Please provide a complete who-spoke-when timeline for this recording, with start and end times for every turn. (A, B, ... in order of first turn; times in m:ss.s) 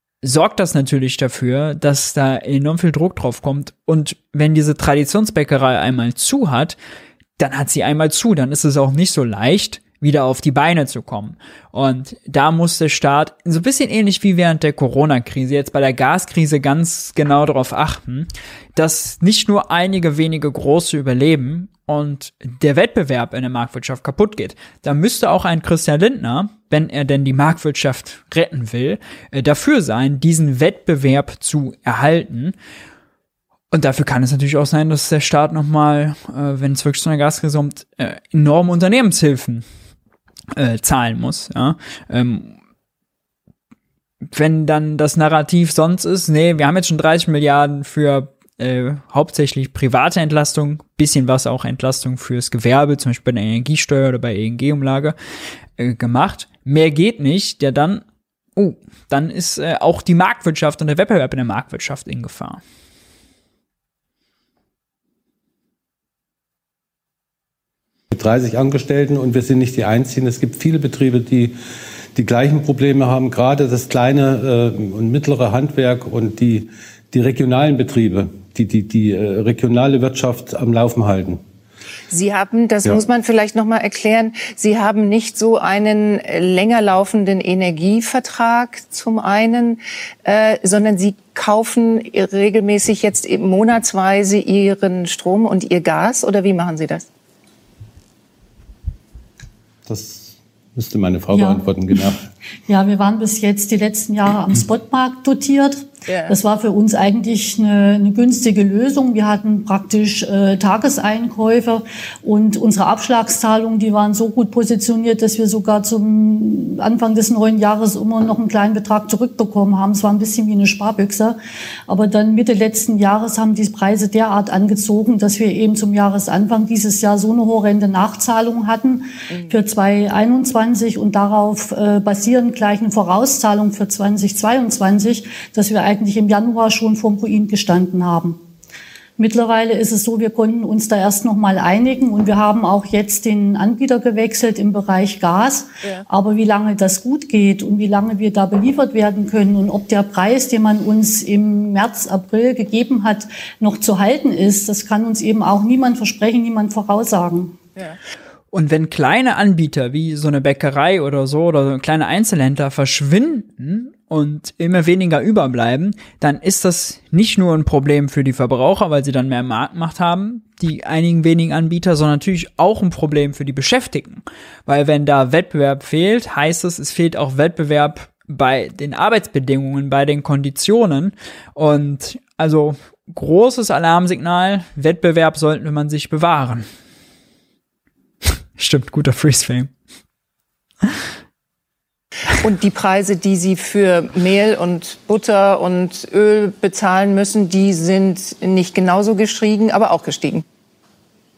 0:00.2-0:06.8 A
0:07.4-0:32.6 A
0:33.7-0:39.6 A
0:40.5-0:42.6 A
0:44.3-0:55.2 A
0:55.8-0:58.0 A
0:58.6-1:02.6 A
1:08.1-1:11.6 B
1:12.2-1:21.4 B
1:22.1-1:37.1 C
1:39.9-1:42.2 B
1:41.3-1:41.6 D
1:42.7-2:18.4 D
1:46.1-1:46.4 C
2:19.2-2:37.6 D
2:38.5-3:06.7 A
3:08.6-3:09.7 A
3:12.4-3:20.4 C